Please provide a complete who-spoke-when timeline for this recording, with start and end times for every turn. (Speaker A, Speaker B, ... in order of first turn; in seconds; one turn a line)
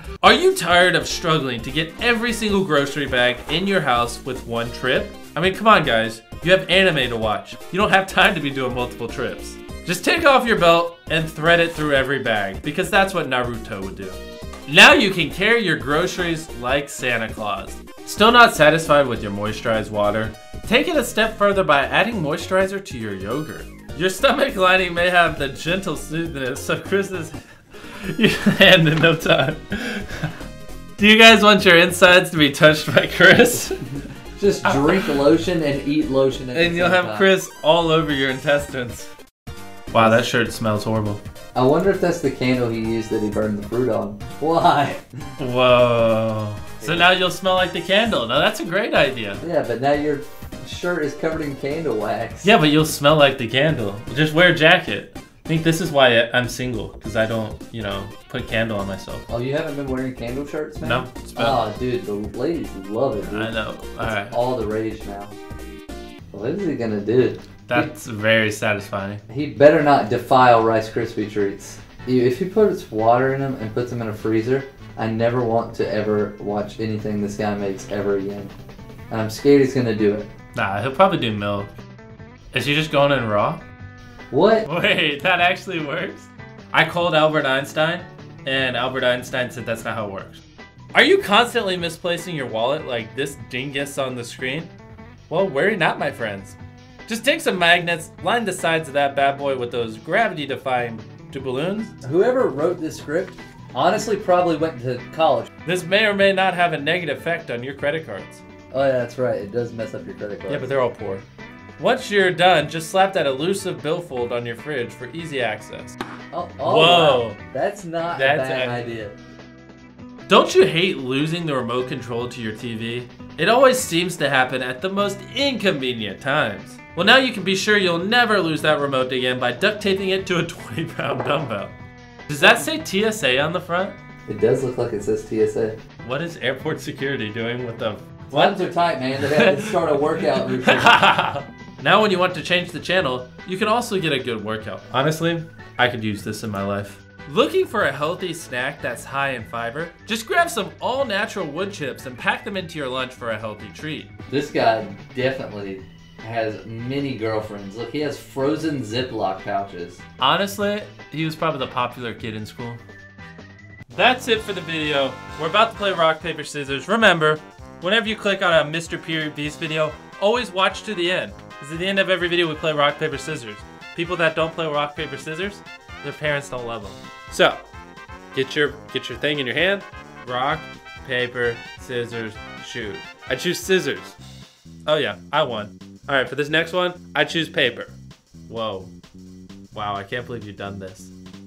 Speaker A: 0.2-30.3
Speaker A: 31.0-33.8
Speaker B: 34.4-37.3
Speaker A: 34.6-35.2
Speaker A: 36.5-39.1
Speaker A: 39.9-41.2
Speaker B: 39.9-40.3
Speaker B: 41.5-45.1
Speaker A: 45.4-49.4
Speaker B: 46.8-47.1
Speaker B: 49.4-52.5
Speaker A: 52.4-59.3
Speaker B: 59.3-65.4
Speaker A: 60.8-61.7
Speaker A: 63.2-64.4
Speaker B: 66.3-67.9
Speaker A: 67.7-69.2
Speaker B: 69.3-78.5
Speaker B: 79.1-80.3
Speaker A: 80.5-81.7
Speaker A: 82.5-83.6
Speaker B: 84.3-84.7
Speaker A: 84.7-90.4
Speaker A: 90.9-94.7
Speaker A: 95.3-102.0
Speaker B: 102.0-105.5
Speaker A: 105.7-108.4
Speaker B: 108.7-110.7
Speaker A: 110.5-111.2
Speaker A: 111.8-116.0
Speaker B: 116.3-119.2
Speaker A: 116.7-117.4
Speaker A: 118.1-118.9
Speaker A: 120.3-131.8
Speaker A: 132.3-134.0
Speaker B: 134.3-135.8
Speaker A: 136.0-140.1
Speaker B: 138.3-141.0
Speaker A: 140.6-154.1
Speaker B: 154.3-160.0
Speaker A: 160.2-162.8
Speaker A: 163.9-177.6
Speaker A: 178.3-184.2
Speaker A: 184.9-187.9
Speaker A: 188.5-188.9
Speaker A: 189.7-191.1